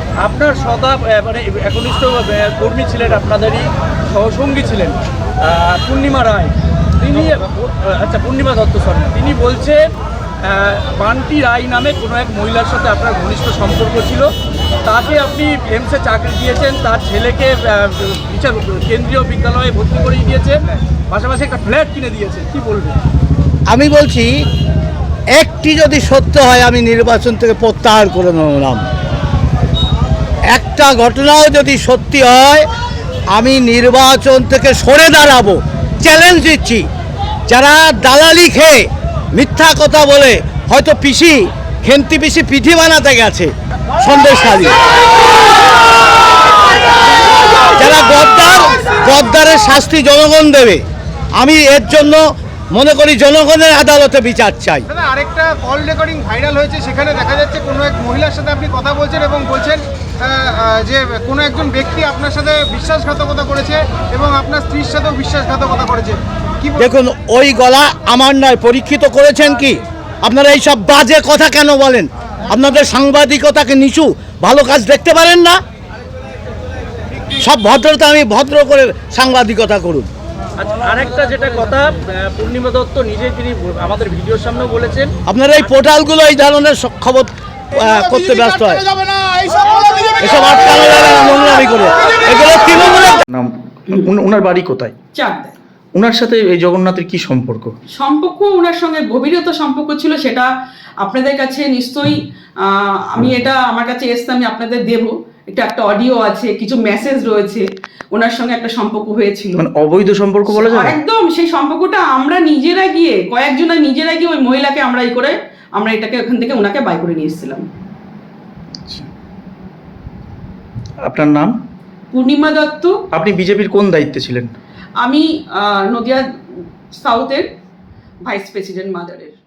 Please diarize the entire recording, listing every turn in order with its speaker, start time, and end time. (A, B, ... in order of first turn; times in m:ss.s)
0:00.2-0:09.9 A
0:10.4-0:14.3 A
0:14.8-0:20.6 A
0:21.1-0:23.0 A
0:23.7-0:24.3 B
0:25.4-0:28.8 B
0:30.5-0:32.7 B
0:33.3-0:36.8 B
0:37.5-0:44.8 B
0:47.8-0:50.8 B
0:51.4-0:52.2 B
0:52.7-0:54.9 B
0:54.9-1:06.8 C
1:06.8-1:15.6 B
1:17.4-1:20.1 B
1:20.6-1:25.1 A
1:25.3-1:28.9 B
1:29.2-1:30.0 D
1:30.2-1:33.2 B
1:33.3-1:34.9 D
1:35.2-1:35.6 E
1:36.0-1:37.7 D
1:37.9-1:49.6 E
1:49.6-1:51.0 D
1:50.7-1:57.6 E
2:01.0-2:01.5 D
2:02.1-2:03.0 E
2:03.1-2:04.5 D
2:05.0-2:06.2 E
2:07.0-2:07.4 E
2:08.2-2:09.2 E